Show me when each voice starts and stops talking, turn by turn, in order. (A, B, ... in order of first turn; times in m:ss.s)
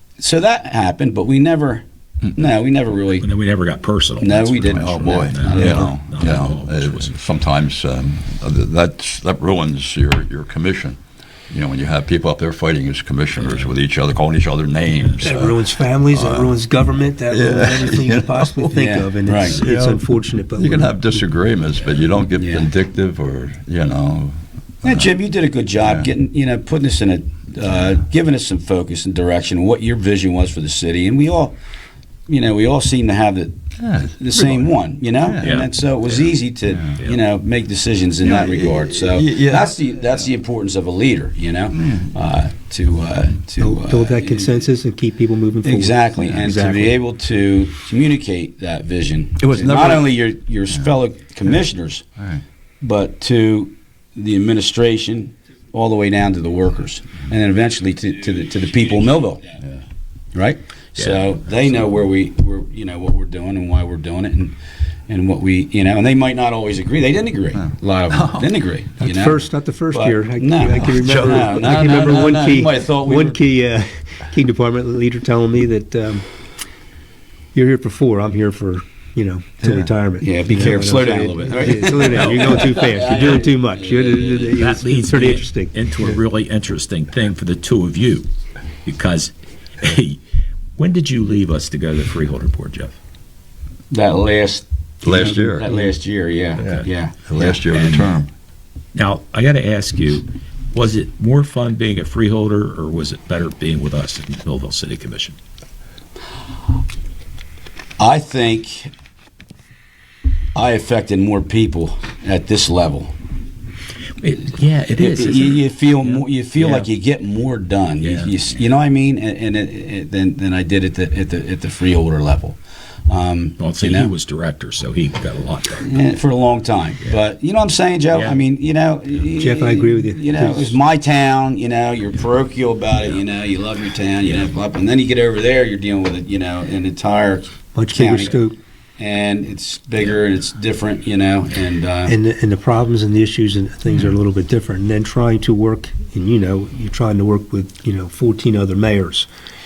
0:00.2-0:03.3 A
0:03.2-0:07.2 B
0:04.2-0:05.9 A
0:04.7-0:11.0 C
0:11.5-0:16.6 C
0:13.4-0:13.7 B
0:15.2-0:21.2 D
0:17.3-0:20.0 C
0:18.7-0:19.6 A
0:20.6-0:25.1 C
0:22.4-0:22.7 A
0:24.8-0:31.6 A
0:25.8-0:26.1 C
0:32.3-0:33.6 A
0:33.8-0:35.5 C
0:34.2-0:44.7 A
0:35.4-0:36.3 B
0:38.2-0:39.8 C
0:41.7-0:42.1 C
0:43.6-0:47.0 D
0:45.6-0:52.1 A
0:49.4-0:50.1 C
0:52.8-0:59.4 A
1:00.3-1:04.6 A
1:05.1-1:13.4 A
1:07.6-1:08.5 C
1:09.0-1:16.3 D
1:10.8-1:12.5 C
1:17.5-1:26.2 D
1:20.2-1:24.6 A
1:22.1-1:22.6 B
1:24.5-1:28.3 B
1:28.8-1:30.2 B
1:30.8-1:32.9 B
1:33.9-1:38.1 A
1:35.0-1:35.8 C
1:36.8-1:38.3 C
1:39.0-1:45.4 B
1:48.0-1:48.9 A
1:50.6-1:53.1 A
1:54.2-1:56.9 B
1:55.0-2:04.1 A
1:58.0-1:58.3 B
2:03.6-2:05.9 B
2:05.8-2:18.4 A
2:08.1-2:08.4 B
2:09.4-2:10.8 D
2:17.7-2:18.6 D
2:19.0-2:22.1 A
2:22.0-2:29.3 D